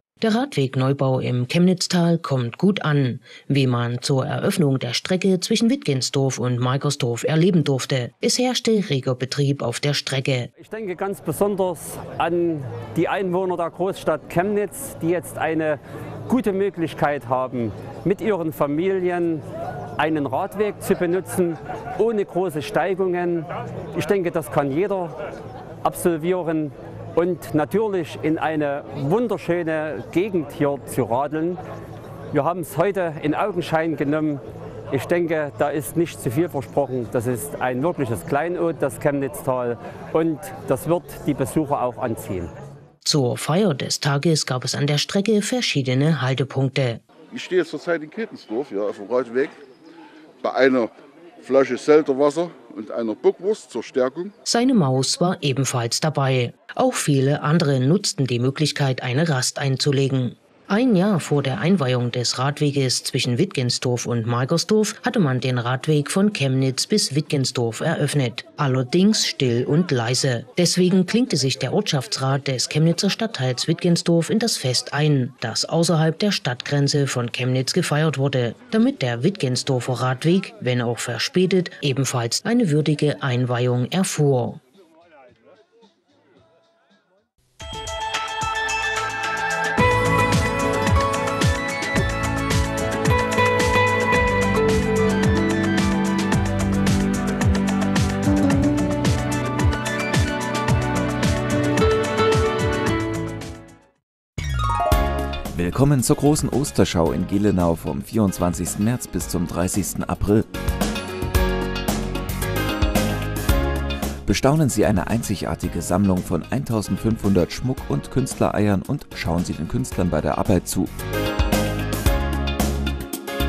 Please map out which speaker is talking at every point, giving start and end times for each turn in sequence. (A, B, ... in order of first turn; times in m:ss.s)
0:00.2-0:10.5 A
0:10.6-0:19.4 B
0:20.0-0:25.2 B
0:25.8-0:31.6 B
0:32.3-0:42.5 B
0:43.0-0:47.0 A
0:47.3-0:49.6 C
0:50.4-0:50.9 C
0:51.4-0:54.3 C
0:54.4-1:24.6 A
1:45.5-1:50.5 D
1:54.2-2:00.9 D